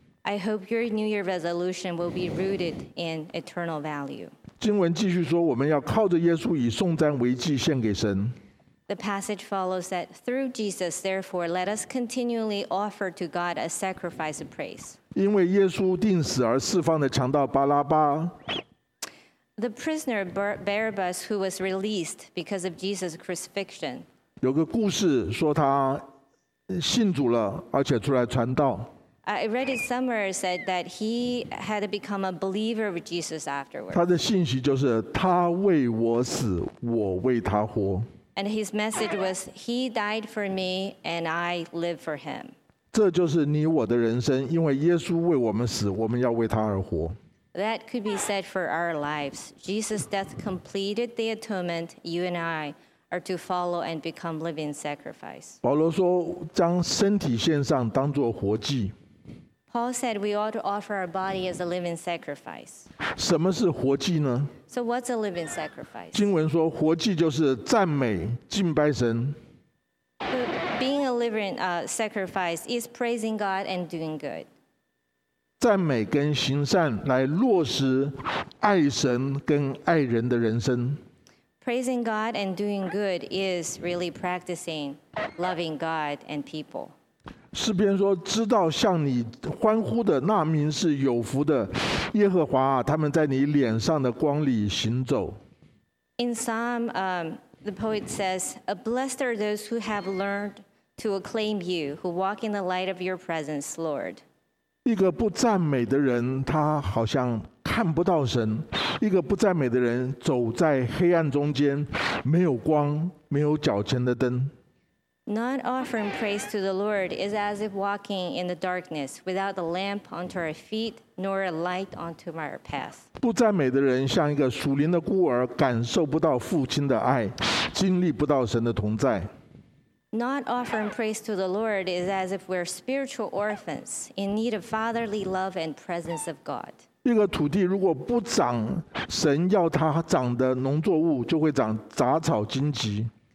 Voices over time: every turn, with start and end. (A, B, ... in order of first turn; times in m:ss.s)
0:00.2-0:04.3 A
0:04.6-0:08.4 B
0:08.9-0:15.0 A
0:15.1-0:18.4 B
0:19.6-0:24.1 A
0:24.4-0:26.0 B
0:26.7-0:28.9 B
0:29.2-0:34.0 A
0:33.9-0:38.1 B
0:38.4-0:42.5 A
0:42.9-0:47.2 B
0:47.5-0:55.6 A
0:55.6-0:58.9 B
0:59.7-1:02.9 A
1:03.2-1:04.6 B
1:04.7-1:06.3 A
1:06.1-1:09.4 B
1:10.3-1:14.5 A
1:15.6-1:21.0 B
1:21.6-1:26.9 A
1:27.5-1:35.4 B
1:36.2-1:44.2 A
1:44.8-1:54.5 B
1:55.3-2:03.1 A
2:03.2-2:09.3 B
2:10.1-2:16.8 A
2:17.0-2:23.1 B